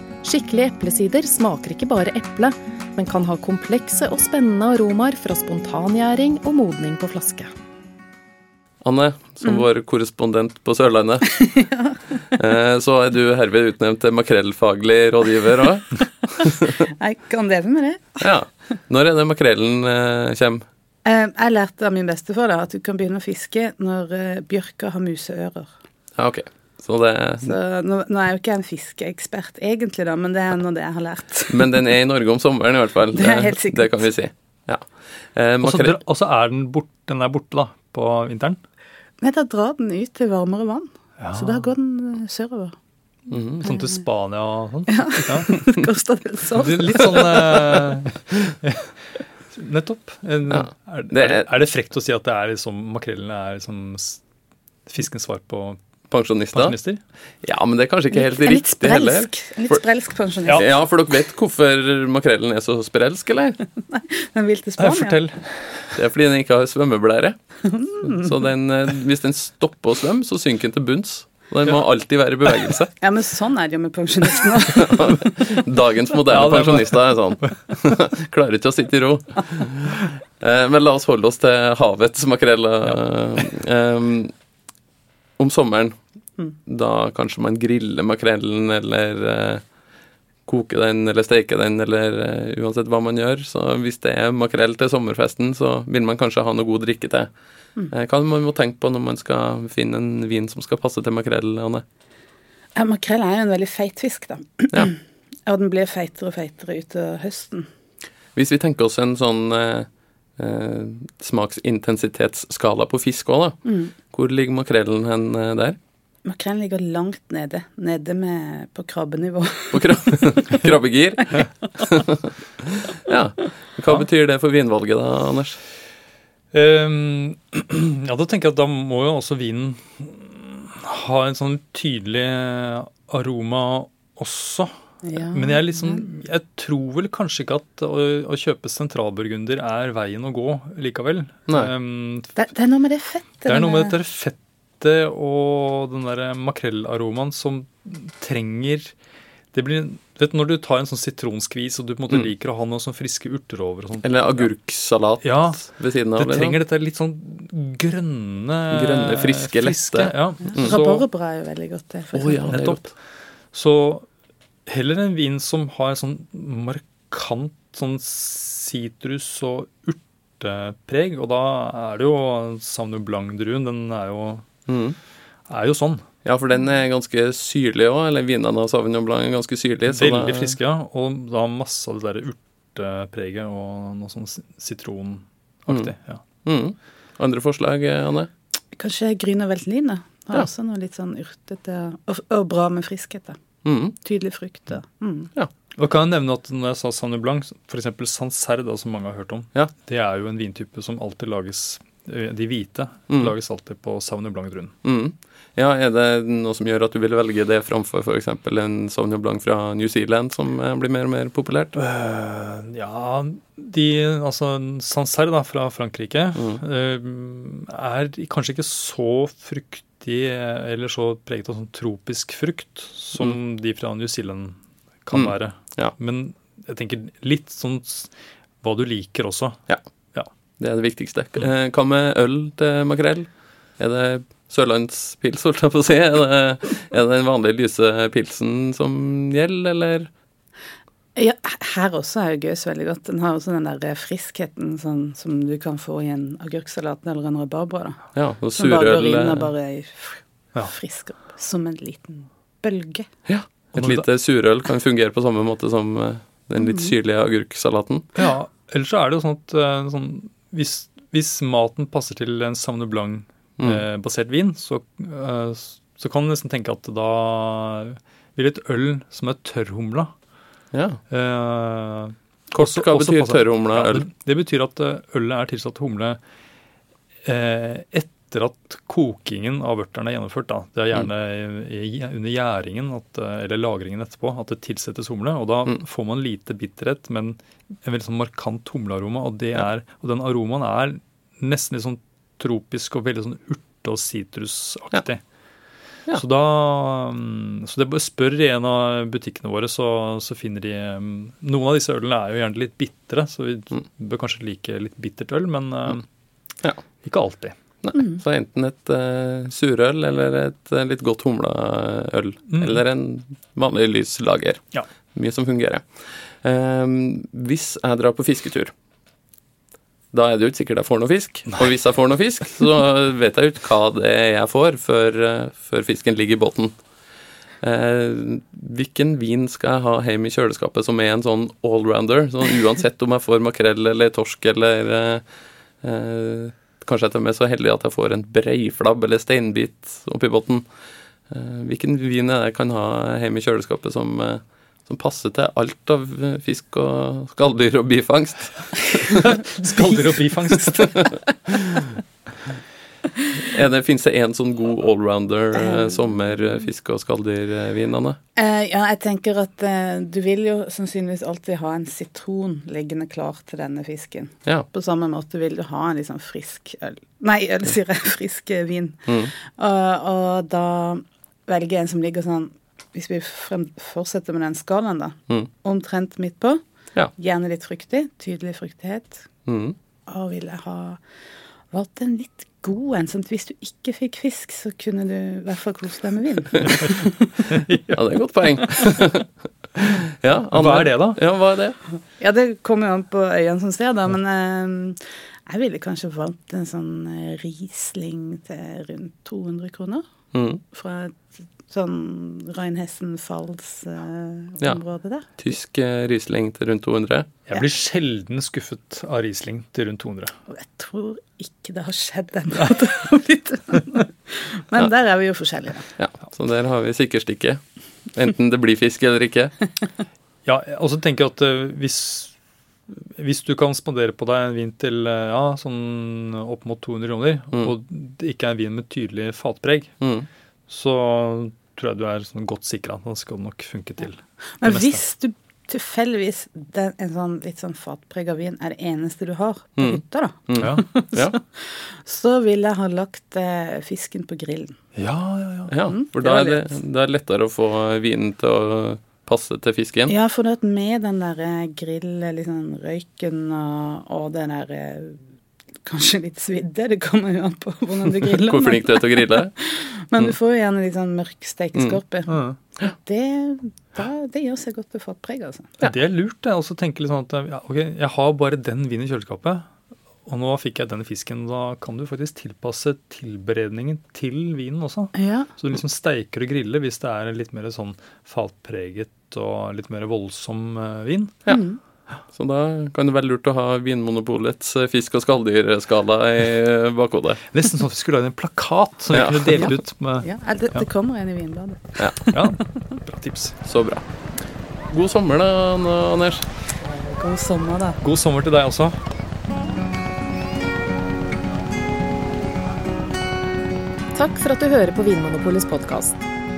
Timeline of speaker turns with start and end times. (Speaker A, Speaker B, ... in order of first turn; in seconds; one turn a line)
Speaker A: 0.2-7.5
Speaker B: 8.8-11.3
Speaker C: 11.3-12.1
Speaker B: 12.3-16.8
Speaker C: 16.4-18.2
Speaker B: 18.2-20.6
Speaker C: 21.0-25.7
Speaker B: 26.1-27.6
Speaker C: 27.4-31.8
Speaker B: 31.5-36.0
Speaker C: 33.1-34.1
Speaker D: 35.6-38.6
Speaker C: 39.2-42.8
Speaker D: 41.2-41.6
Speaker B: 43.3-43.7
Speaker D: 43.6-45.6
Speaker C: 44.9-47.8
Speaker D: 46.6-48.9
Speaker D: 49.5-54.2
Speaker B: 50.5-51.5
Speaker D: 54.9-55.8
Speaker B: 56.1-56.8
Speaker D: 56.5-57.0
Speaker B: 57.4-59.8
Speaker C: 58.1-60.8
Speaker B: 60.5-63.6
Speaker C: 63.9-65.2
Speaker D: 64.8-66.0
Speaker B: 66.0-67.3
Speaker C: 67.6-68.3
Speaker B: 68.0-72.9
Speaker C: 73.0-75.6
Speaker B: 74.7-84.3
Speaker D: 76.3-77.5
Speaker B: 85.4-86.0
Speaker B: 86.7-89.6
Speaker B: 90.5-97.3
Speaker B: 97.9-101.8
Speaker C: 102.7-107.7
Speaker B: 108.3-115.8
Speaker C: 113.6-113.9
Speaker C: 116.2-120.7
Speaker B: 119.7-125.6
Speaker D: 126.5-142.3
Speaker C: 135.0-136.0
Speaker C: 142.3-143.9
Speaker D: 143.5-148.9
Speaker D: 149.5-154.5
Speaker B: 154.0-156.6
Speaker D: 155.2-161.0
Speaker B: 158.7-160.8
Speaker C: 160.4-162.6
Speaker B: 162.1-162.9
Speaker D: 162.4-162.8
Speaker D: 163.5-164.1
Speaker D: 164.7-174.4
Speaker B: 174.7-175.0
Speaker D: 175.5-176.0
Speaker B: 176.2-180.6
Speaker D: 179.9-186.2
Speaker B: 186.4-188.3
Speaker C: 188.7-193.4
Speaker B: 193.6-193.9
Speaker C: 194.0-195.3
Speaker D: 195.8-204.7
Speaker B: 204.8-211.7
Speaker D: 211.7-228.1
Speaker B: 216.3-216.6
Speaker B: 225.1-225.9
Speaker D: 228.6-229.6
Speaker B: 230.6-240.1
Speaker C: 241.2-248.0
Speaker B: 248.1-249.5
Speaker C: 248.5-253.1
Speaker B: 253.2-258.1
Speaker D: 253.8-254.1
Speaker D: 258.1-270.1
Speaker B: 263.6-263.8
Speaker B: 270.7-271.0
Speaker D: 271.1-276.2
Speaker B: 272.5-274.1
Speaker D: 277.2-295.2
Speaker D: 296.1-306.0
Speaker D: 307.0-307.5
Speaker B: 307.8-314.6
Speaker D: 312.5-312.8
Speaker B: 315.1-318.7
Speaker B: 320.1-326.7
Speaker B: 327.6-335.2
Speaker B: 335.8-340.6
Speaker B: 341.3-349.4
Speaker D: 349.2-351.2
Speaker B: 350.7-351.8
Speaker B: 353.4-358.2
Speaker C: 355.6-355.9
Speaker C: 358.4-376.6
Speaker C: 377.1-379.3
Speaker B: 379.4-379.8
Speaker C: 380.1-381.0
Speaker C: 381.7-387.3
Speaker D: 387.5-388.0
Speaker B: 387.9-391.8
Speaker D: 390.5-391.2
Speaker C: 392.2-400.0
Speaker B: 400.3-400.6
Speaker C: 400.7-405.3
Speaker B: 405.4-407.3
Speaker D: 407.5-410.3
Speaker C: 410.5-415.9
Speaker B: 416.0-419.5
Speaker D: 420.4-422.3
Speaker D: 423.2-429.9
Speaker B: 430.0-430.3
Speaker D: 430.7-435.0
Speaker C: 434.6-444.8
Speaker B: 439.8-441.4
Speaker D: 440.6-440.8
Speaker D: 444.9-445.7
Speaker B: 445.7-450.1
Speaker C: 445.8-446.7
Speaker C: 450.1-455.2
Speaker C: 455.8-465.8
Speaker B: 458.2-459.5
Speaker D: 462.3-462.6
Speaker D: 465.8-469.7
Speaker D: 470.2-481.4
Speaker C: 475.1-475.5
Speaker C: 481.5-481.8
Speaker B: 482.3-487.4
Speaker D: 487.5-490.8
Speaker B: 489.1-489.8
Speaker C: 490.2-492.6
Speaker D: 492.3-493.6
Speaker B: 493.6-494.0
Speaker B: 494.9-496.5
Speaker C: 496.8-498.0
Speaker D: 498.0-499.0
Speaker A: 504.1-506.2